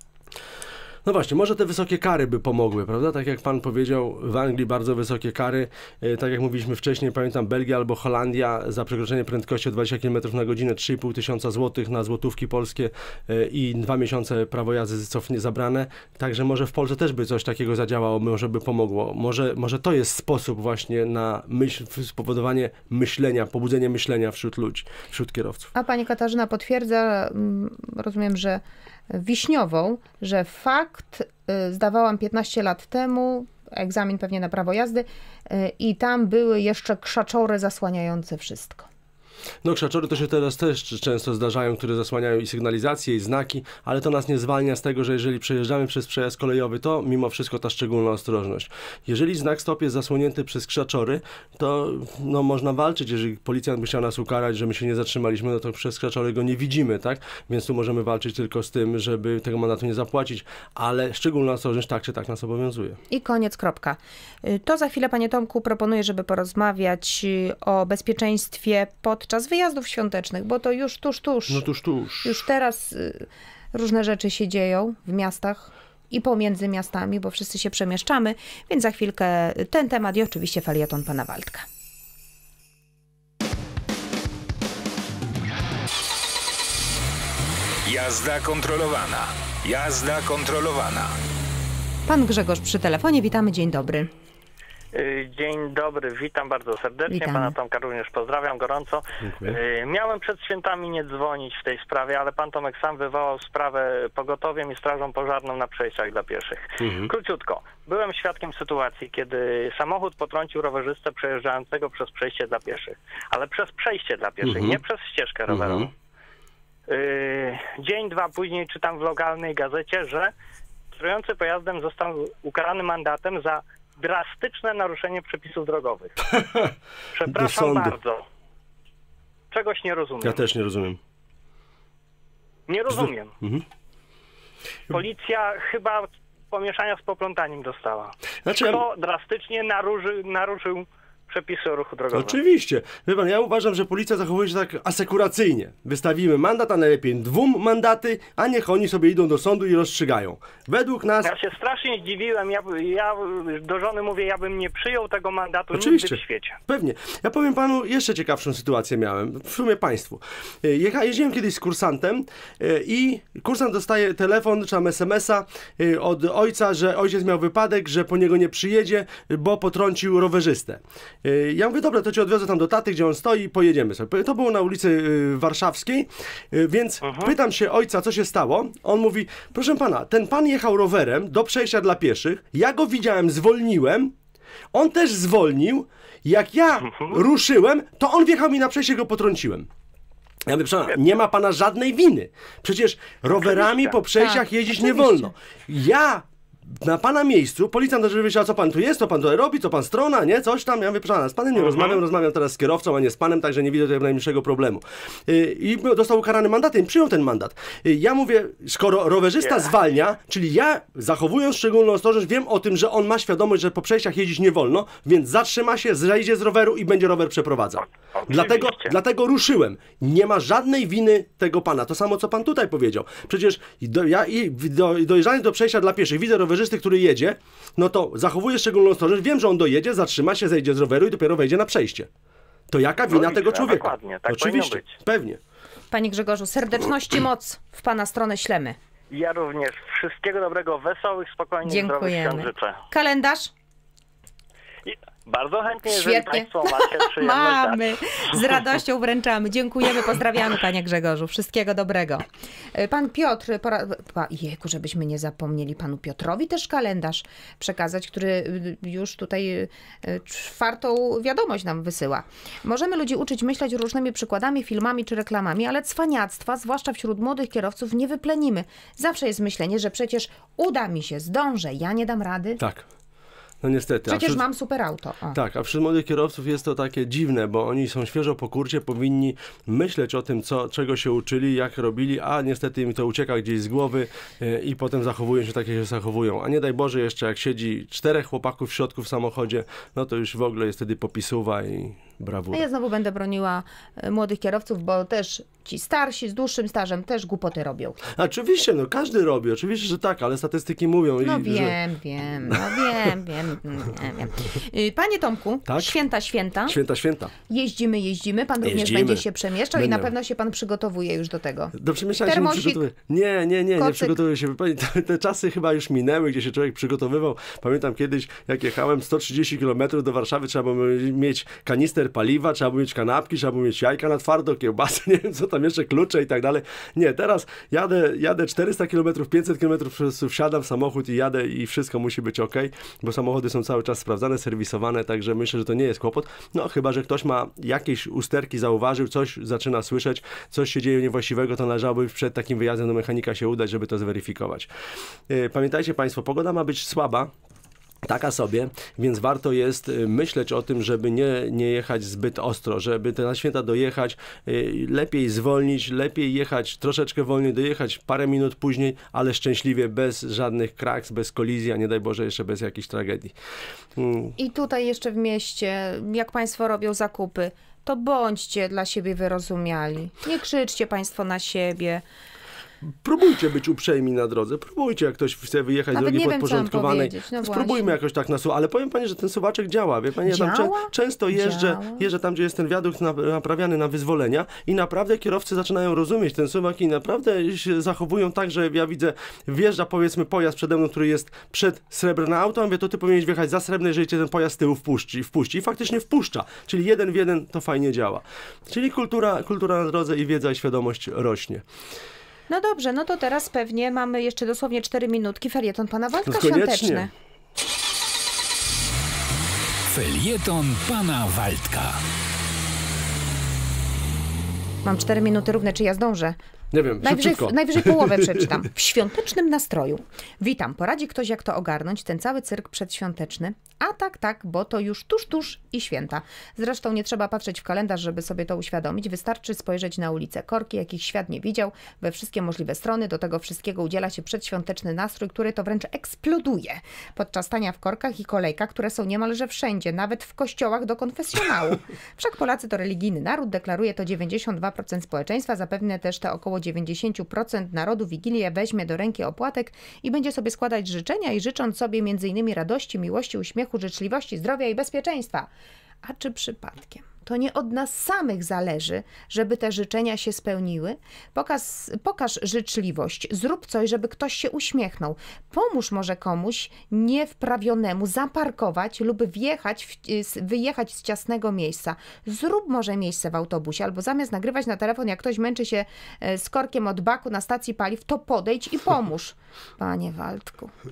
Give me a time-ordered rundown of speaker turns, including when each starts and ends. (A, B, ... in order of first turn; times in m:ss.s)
0:01.0-0:25.7 A
0:25.7-0:38.9 B
0:39.6-1:03.0 A
1:03.1-1:11.6 B
1:11.5-1:12.4 A
1:12.2-1:21.6 B
1:27.8-1:31.2 C
1:32.1-1:34.1 B
1:34.9-1:55.9 D
1:37.1-1:37.5 B
1:39.2-1:39.6 A
1:46.8-1:47.1 A
1:54.4-1:54.8 A
1:55.5-1:55.9 A
1:56.9-2:00.3 D
2:00.9-2:06.2 D
2:06.3-2:06.7 A
2:07.1-2:08.2 D
2:07.3-2:08.0 A
2:09.5-2:10.4 D
2:10.2-2:11.0 A
2:12.7-2:13.3 D
2:12.9-2:13.6 A
2:14.9-2:22.4 D
2:18.4-2:18.8 A
2:22.1-2:31.3 A
2:31.2-2:36.6 D
2:35.7-3:04.1 A
2:57.0-2:57.3 D
3:04.7-3:09.7 A
3:06.9-3:07.2 D
3:10.4-3:52.1 A
3:13.6-3:13.9 D
3:14.1-3:15.3 B
3:21.6-3:22.0 D
3:38.1-3:38.9 D
3:52.7-3:55.4 A
3:53.1-3:54.9 D
3:55.9-3:58.8 B
3:59.1-4:02.8 D
4:01.6-4:03.5 B
4:04.8-4:08.4 D
4:05.9-4:32.6 B
4:32.6-4:32.8 A
4:33.6-4:34.4 A
4:34.1-4:35.4 B
4:35.3-4:52.6 A
4:52.5-4:58.0 B
4:58.1-5:01.8 A
5:01.2-5:06.8 B
5:02.4-5:03.1 A
5:05.7-5:06.0 A
5:06.7-5:07.3 A
5:07.5-5:12.8 B
5:08.6-5:10.1 A
5:11.7-5:44.7 A
5:13.8-5:14.2 B
5:45.3-5:47.3 A
5:48.0-6:03.3 A
6:04.0-6:04.4 A
6:04.4-6:12.0 B
6:12.8-6:41.6 A
6:15.9-6:17.9 B
6:20.2-6:22.1 B
6:42.5-6:47.1 B
6:46.2-6:47.1 A
6:49.9-6:52.0 C
6:54.8-6:56.4 B
6:56.7-6:58.6 A
6:57.0-7:35.5 B
7:36.0-8:00.7 B